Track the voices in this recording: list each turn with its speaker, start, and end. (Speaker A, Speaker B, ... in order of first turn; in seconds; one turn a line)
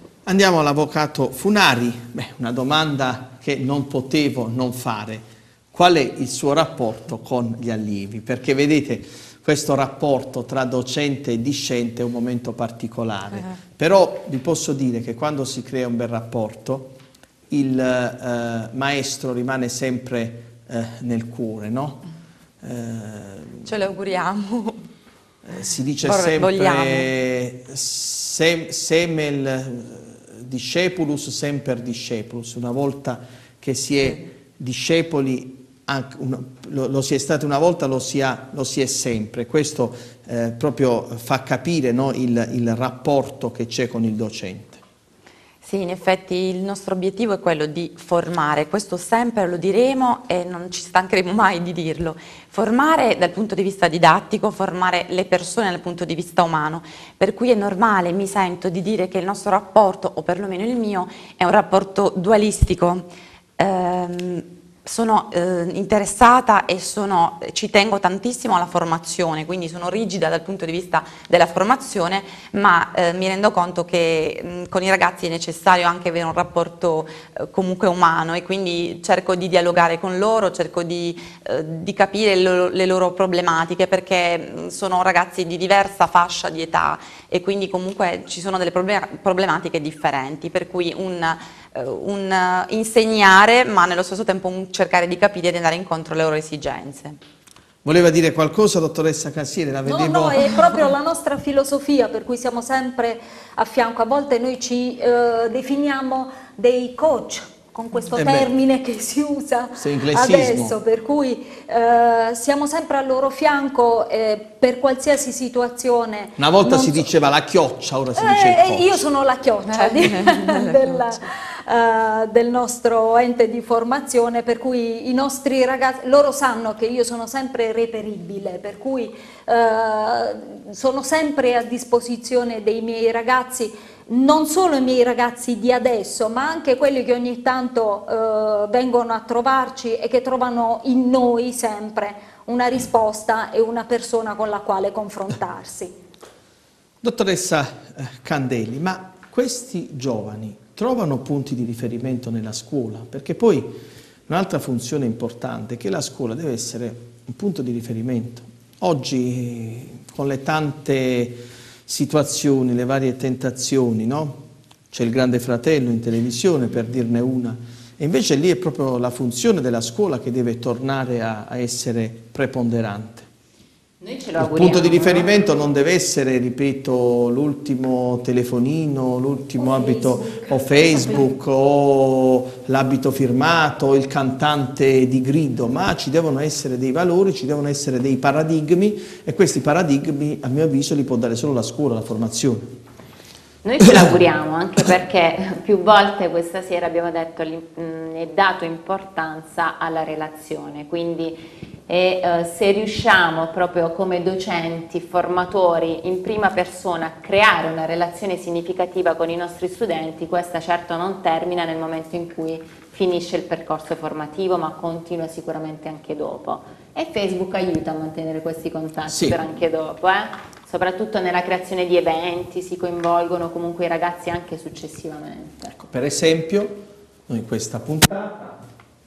Speaker A: 0.2-17.0
Speaker A: 17.5-22.0
Speaker A: 22.6-23.7
Speaker B: 23.6-24.9
Speaker A: 25.5-44.8
Speaker B: 26.0-27.1
Speaker B: 45.6-63.1
Speaker B: 63.6-97.2
Speaker A: 97.8-100.5
Speaker C: 99.8-117.1
Speaker A: 108.2-108.5
Speaker A: 109.8-110.8
Speaker A: 116.4-119.0
Speaker C: 118.2-145.9
Speaker B: 119.7-121.2
Speaker A: 147.0-173.3
Speaker D: 174.0-175.3
Speaker A: 174.4-192.8
Speaker C: 179.6-181.2
Speaker D: 193.6-225.8
Speaker A: 219.1-219.4
Speaker A: 225.8-228.6